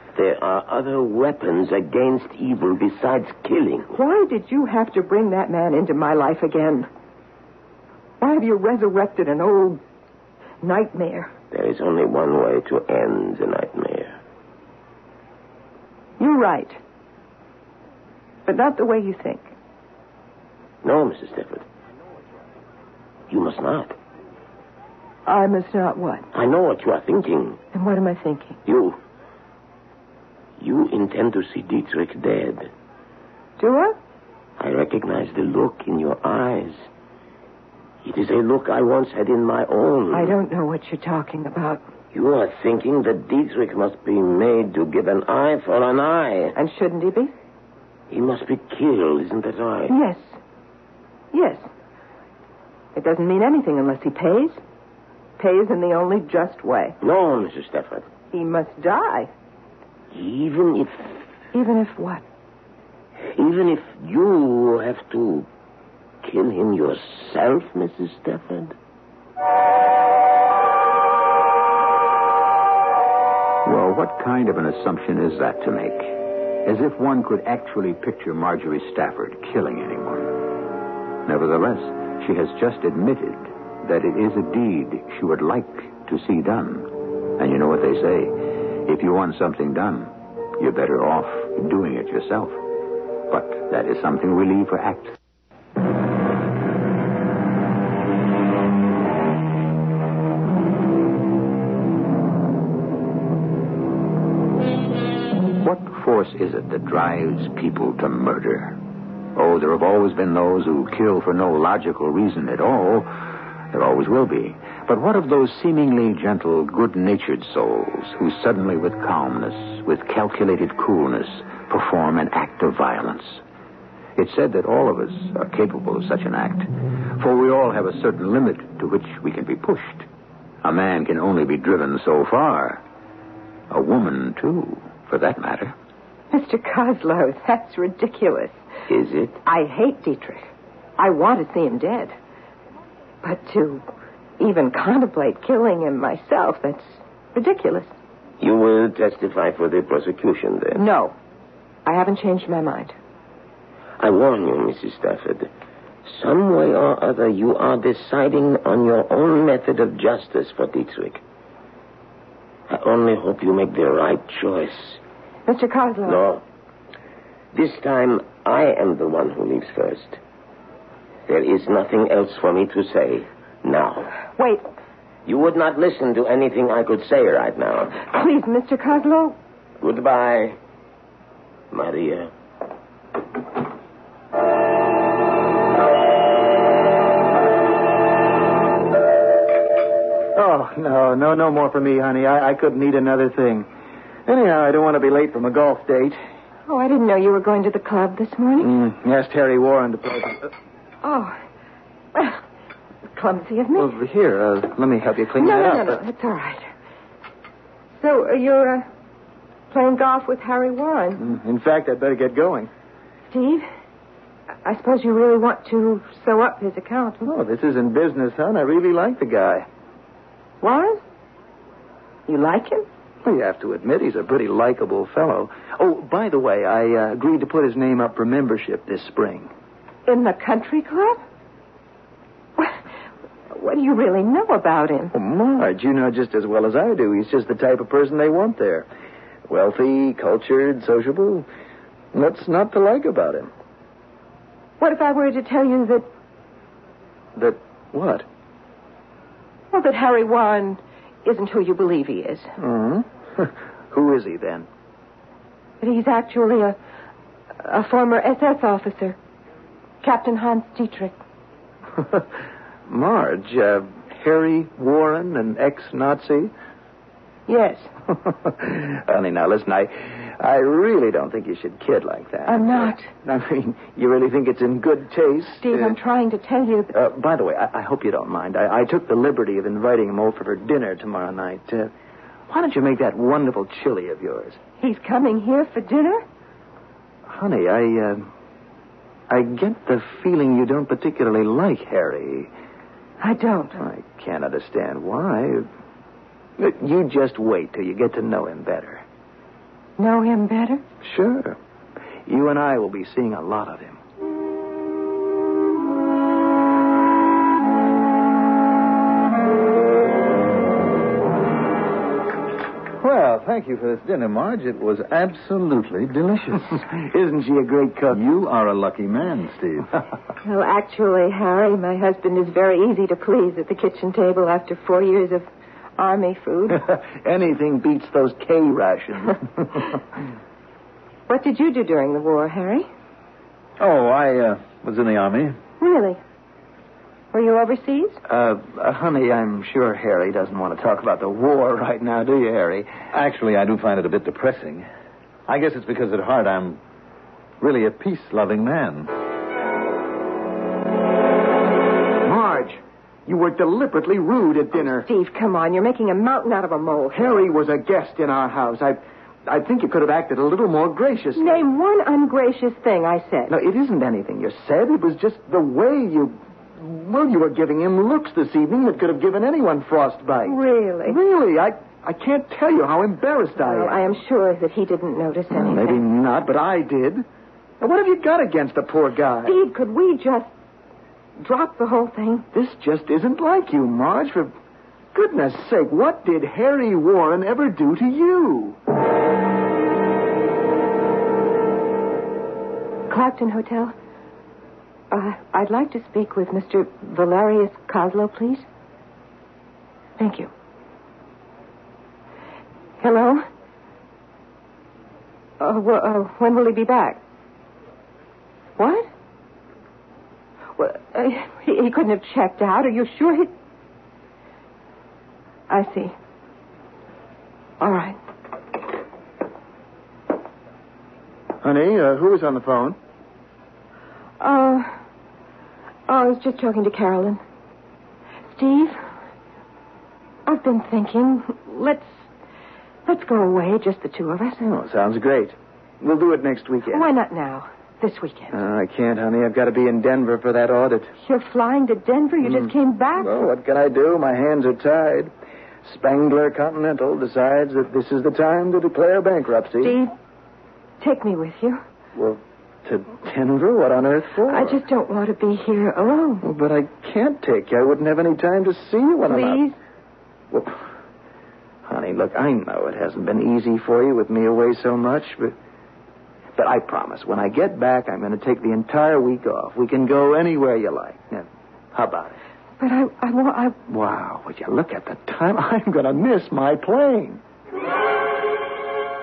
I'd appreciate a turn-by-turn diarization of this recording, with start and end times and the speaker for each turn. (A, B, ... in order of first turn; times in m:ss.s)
0:00.1-0:03.9 A
0:03.9-0:06.9 B
0:08.2-0:09.8 B
0:10.6-0:11.3 B
0:11.5-0:14.2 A
0:16.2-0:16.8 B
0:18.4-0:19.5 B
0:20.8-0:21.6 A
0:23.3-0:23.9 A
0:25.2-0:26.2 B
0:26.3-0:27.6 A
0:27.7-0:28.6 B
0:28.6-0:29.0 A
0:30.6-0:32.7 A
0:33.6-0:34.0 B
0:34.6-0:36.9 A
0:38.0-0:40.3 A
0:40.1-0:41.8 B
0:42.1-0:46.5 A
0:46.5-0:47.3 B
0:48.1-0:49.9 A
0:49.9-0:50.4 B
0:51.3-0:51.7 B
0:52.9-0:54.6 B
0:55.4-0:57.0 B
0:57.0-0:58.0 A
0:58.3-0:59.3 B
1:00.1-1:01.2 A
1:01.5-1:02.2 B
1:03.2-1:05.5 A
1:06.2-1:08.7 A
1:13.6-1:20.5 C
1:21.2-1:32.6 C
1:33.3-1:35.2 C
1:45.6-1:48.8 C
1:49.3-2:03.4 C
2:04.2-2:10.1 C
2:10.6-2:12.8 C
2:13.7-2:15.7 C
2:16.3-2:18.6 B
2:18.9-2:19.4 A
2:19.4-2:22.1 B
2:23.2-2:23.8 B
2:24.4-2:27.9 B
2:28.4-2:30.8 A
2:30.7-2:31.1 B
2:31.8-2:32.9 B
2:34.0-2:35.5 A
2:36.0-2:41.2 A
2:42.7-2:45.0 A
2:45.5-2:46.2 B
2:46.0-2:46.4 A
2:47.5-2:50.2 A
2:51.3-2:54.1 A
2:54.4-2:54.6 B
2:55.2-2:58.0 A
2:58.0-2:59.4 B
2:59.8-3:00.6 A
3:01.7-3:02.3 A
3:10.3-3:13.7 D
3:14.3-3:16.2 D
3:16.7-3:18.7 B
3:18.6-3:20.5 D
3:21.0-3:21.4 B
3:22.1-3:22.4 B
3:23.2-3:23.9 B
3:23.7-3:26.0 D
3:25.4-3:26.6 B
3:28.0-3:28.8 B
3:29.7-3:31.2 B
3:31.2-3:32.7 D
3:33.3-3:33.6 B
3:34.6-3:37.2 B
3:37.2-3:39.6 D
3:40.6-3:41.0 B
3:42.3-3:42.8 B
3:43.2-3:49.5 D
3:50.1-3:51.2 B
3:53.5-3:55.1 B
3:55.1-3:58.9 D
3:59.5-4:01.4 D
4:02.1-4:03.5 D
4:04.8-4:06.1 B
4:07.4-4:08.2 D
4:09.7-4:12.5 B
4:12.6-4:14.7 D
4:15.8-4:16.8 B
4:17.6-4:19.2 B
4:20.0-4:21.1 B
4:22.9-4:26.5 D
4:27.5-4:27.9 B
4:28.2-4:36.0 D
4:32.4-4:33.1 B
4:35.6-4:36.9 B
4:36.9-4:41.9 D
4:42.5-4:44.6 D
4:44.8-4:46.2 B
4:47.3-4:48.2 D
4:49.3-4:52.5 D
4:53.2-4:53.8 B
4:53.8-4:55.7 D
4:56.6-4:59.0 D
5:00.0-5:00.8 B
5:01.0-5:01.6 D
5:02.3-5:04.0 D
5:13.0-5:16.8 E
5:17.0-5:18.2 D
5:18.1-5:20.0 E
5:20.4-5:26.8 B
5:26.7-5:30.0 D
5:31.3-5:32.9 B
5:33.8-5:35.6 E
5:35.8-5:36.2 B
5:37.3-5:38.2 B
5:38.3-5:43.0 D
5:43.1-5:44.8 E
5:45.5-5:46.8 E
5:47.6-5:49.1 E
5:52.2-5:55.1 D
5:54.8-5:57.5 B
5:57.1-6:01.6 D
6:01.4-6:03.5 B
6:03.5-6:14.0 D
6:10.4-6:11.2 B
6:13.6-6:16.0 B
6:15.5-6:17.2 D
6:17.8-6:19.6 D
6:19.4-6:20.5 B
6:21.4-6:22.5 B
6:22.5-6:24.5 D
6:25.1-6:28.8 D
6:33.1-6:33.9 B
6:35.1-6:38.6 B
6:40.2-6:40.5 B
6:43.0-6:43.4 B
6:45.6-6:47.2 B
6:48.8-6:49.1 B
6:50.8-6:53.5 B
6:55.7-6:56.1 B
6:57.8-6:58.2 B
7:01.6-7:03.0 D
7:04.4-7:04.9 B
7:06.1-7:07.4 B
7:08.6-7:09.0 B
7:10.5-7:12.1 B
7:13.0-7:14.6 B
7:14.6-7:17.1 D
7:16.9-7:18.6 B
7:18.5-7:21.1 D
7:21.2-7:23.5 B
7:22.4-7:25.3 D
7:25.8-7:30.0 D
7:29.8-7:30.1 B
7:31.0-7:31.8 B
7:32.1-7:34.8 D
7:34.5-7:36.4 B
7:36.4-7:39.6 D
7:39.3-7:39.8 B
7:40.5-7:40.8 D
7:41.9-7:45.5 D
7:46.6-7:52.3 D
7:52.8-7:53.8 B
7:53.9-7:57.4 D